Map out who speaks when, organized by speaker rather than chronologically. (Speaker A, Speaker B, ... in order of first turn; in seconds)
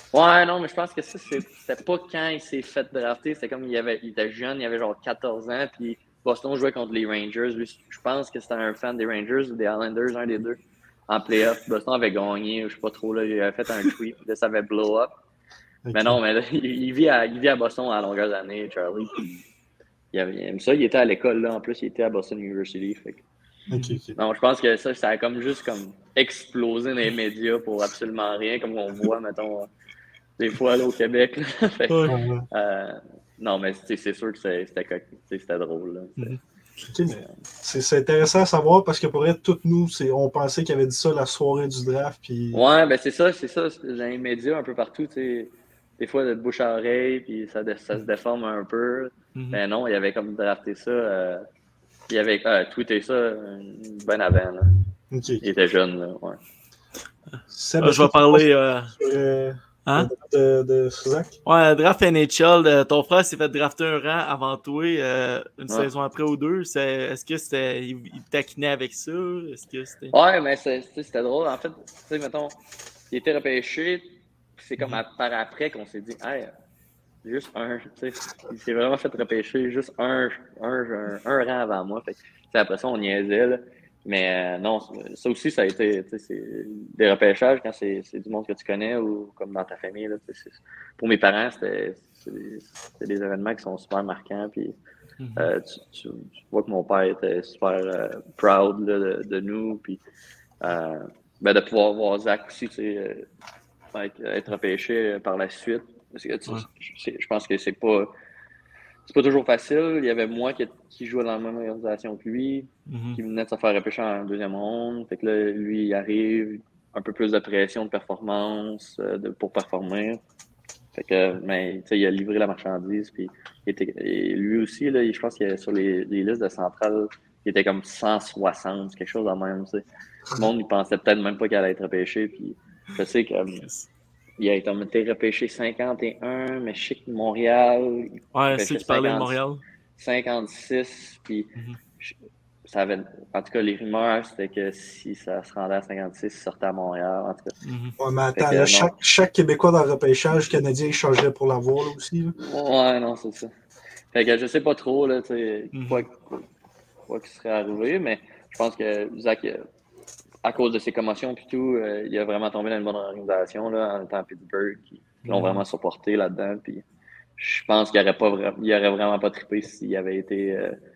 Speaker A: 0.1-15.1, 15.9-19.3, 20.1-23.2, 24.1-29.7, 30.4-36.4, 42.5-51.4, 52.1-54.7, 55.4-56.4, 70.1-72.5, 73.1-76.5, 77.2-94.7, 95.3-100.0, 100.6-103.3, 103.9-108.1, 109.1-120.2, 120.9-133.6, 134.4-139.3, 140.0-142.1, 142.6-147.5, 148.3-148.9, 152.4-153.5, 154.1-156.4, 157.1-159.6, 160.4-166.8, 167.4-170.8
Speaker B: 15.9-16.2, 23.7-24.1, 32.1-32.5, 36.9-42.6, 55.1-55.4, 57.5-61.3, 148.0-152.3
Speaker C: 23.7-24.0, 31.9-32.2, 57.3-59.0, 61.5-70.1, 95.2-95.5, 112.9-113.2, 138.3-139.6, 147.6-148.0, 155.7-156.0, 165.2-165.6